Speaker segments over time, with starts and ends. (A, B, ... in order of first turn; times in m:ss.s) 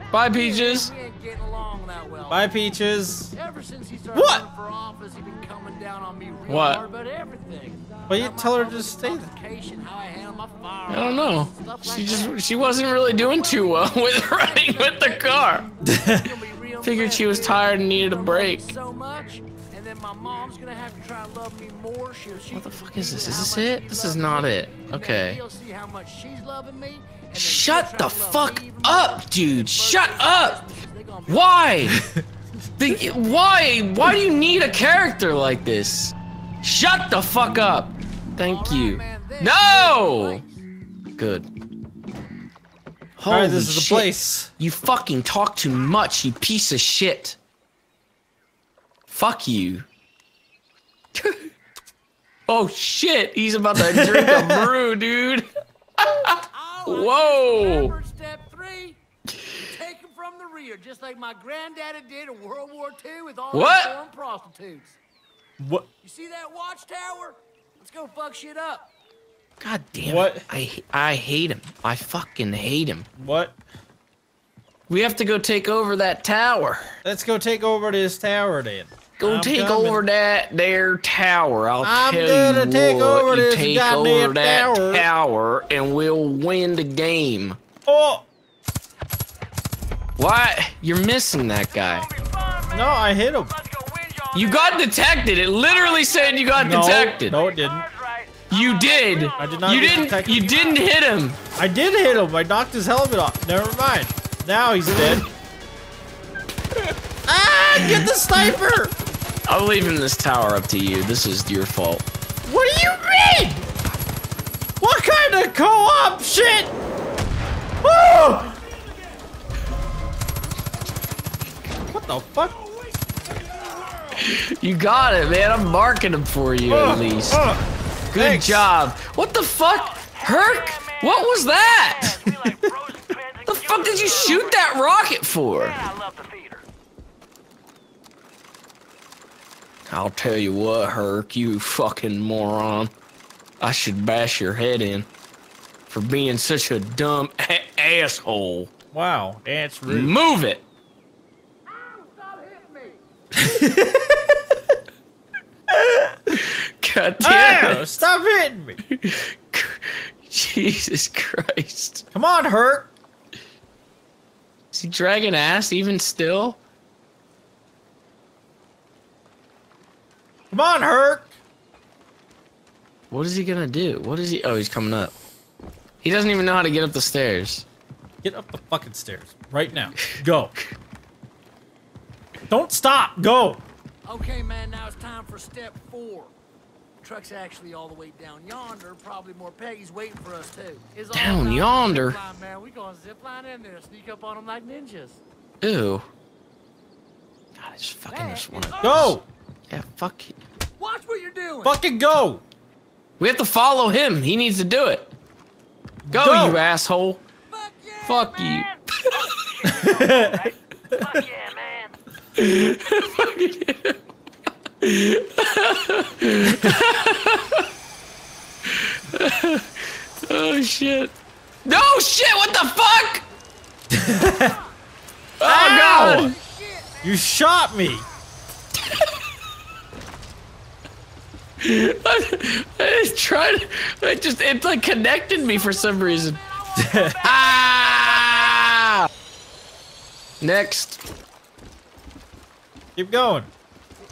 0:00.1-0:00.9 A
0:00.3-0:02.5 B
0:02.3-0:03.3 C
0:03.3-0:12.4 B
0:04.1-0:04.4 C
0:06.5-0:06.8 A
0:08.1-0:09.3 C
0:10.9-0:15.7 A
0:13.4-0:31.8 B
0:15.8-0:16.3 C
0:16.8-0:18.6 A
0:22.5-0:25.4 A
0:27.3-0:30.6 A
0:31.3-0:32.0 A
0:32.8-0:40.4 A
0:38.4-0:40.5 B
0:41.2-0:41.5 A
0:43.2-0:47.4 A
0:43.3-0:44.5 C
0:49.1-0:49.8 A
0:51.1-0:51.5 A
0:52.5-0:57.9 A
0:53.9-0:54.6 C
0:56.5-0:59.0 B
0:59.5-1:05.0 B
1:03.5-1:04.0 A
1:05.6-1:05.8 C
1:06.0-1:08.9 B
1:09.6-1:13.1 A
1:10.0-1:10.4 C
1:13.2-1:13.5 C
1:14.9-1:17.0 A
1:17.0-1:20.0 C
1:19.2-1:27.6 A
1:21.8-1:25.1 C
1:27.9-1:28.2 C
1:30.2-1:32.1 A
1:31.8-1:35.0 D
1:32.7-1:33.5 C
1:34.3-1:37.4 A
1:35.6-1:36.5 D
1:36.5-1:37.9 C
1:37.3-1:39.6 D
1:38.5-1:41.4 A
1:39.4-1:40.5 C
1:39.9-1:40.5 B
1:40.5-1:40.8 D
1:41.6-1:45.2 C
1:47.3-1:48.9 C
1:47.8-1:48.5 A
1:49.4-1:52.0 A
1:52.4-1:53.6 C
1:54.8-1:56.7 C
1:57.8-1:58.6 C
2:01.9-2:02.5 C
2:04.2-2:07.5 A
2:06.6-2:08.7 C
2:08.1-2:12.2 A
2:09.7-2:14.8 D
2:13.4-2:15.8 A
2:15.5-2:16.6 D
2:19.9-2:22.9 A
2:23.6-2:25.1 A
2:25.9-2:28.7 A
2:28.9-2:30.2 C
2:29.9-2:30.6 A
2:31.7-2:33.0 B
2:33.4-2:34.2 C
2:35.7-2:36.3 C
2:36.3-2:38.0 A
2:37.2-2:38.8 C
2:38.9-2:42.0 A
2:42.1-2:42.9 C
2:44.7-2:46.6 A
2:50.5-2:51.3 C
2:53.1-2:55.1 A
2:56.0-2:57.6 A
2:58.2-3:00.5 C
3:02.5-3:03.6 C
3:04.0-3:06.3 B
3:07.0-3:15.2 B
3:11.1-3:12.2 A
3:15.6-3:16.0 A
3:17.6-3:19.2 A
3:18.1-3:19.2 B
3:18.8-3:19.2 C
3:19.7-3:20.4 A
3:20.8-3:21.8 B
3:21.6-3:22.4 C
3:23.2-3:25.1 A
3:26.1-3:26.6 C
3:26.1-3:27.2 A
3:27.5-3:30.1 B
3:28.0-3:29.2 A
3:29.1-3:32.0 D
3:29.7-3:30.4 C
3:32.4-3:34.0 A
3:34.8-3:37.6 A
3:36.5-3:36.8 C
3:38.6-3:39.7 A
3:40.2-3:41.1 A
3:41.6-3:43.2 A
3:43.9-3:44.6 C
3:45.4-3:46.4 A
3:45.4-3:46.3 C
3:46.3-3:47.0 B
3:47.0-3:48.0 C
3:51.6-3:56.4 A
3:56.6-3:58.6 B
3:56.8-3:57.2 C
3:57.2-3:59.1 A
4:00.4-4:01.0 A
4:03.0-4:03.5 C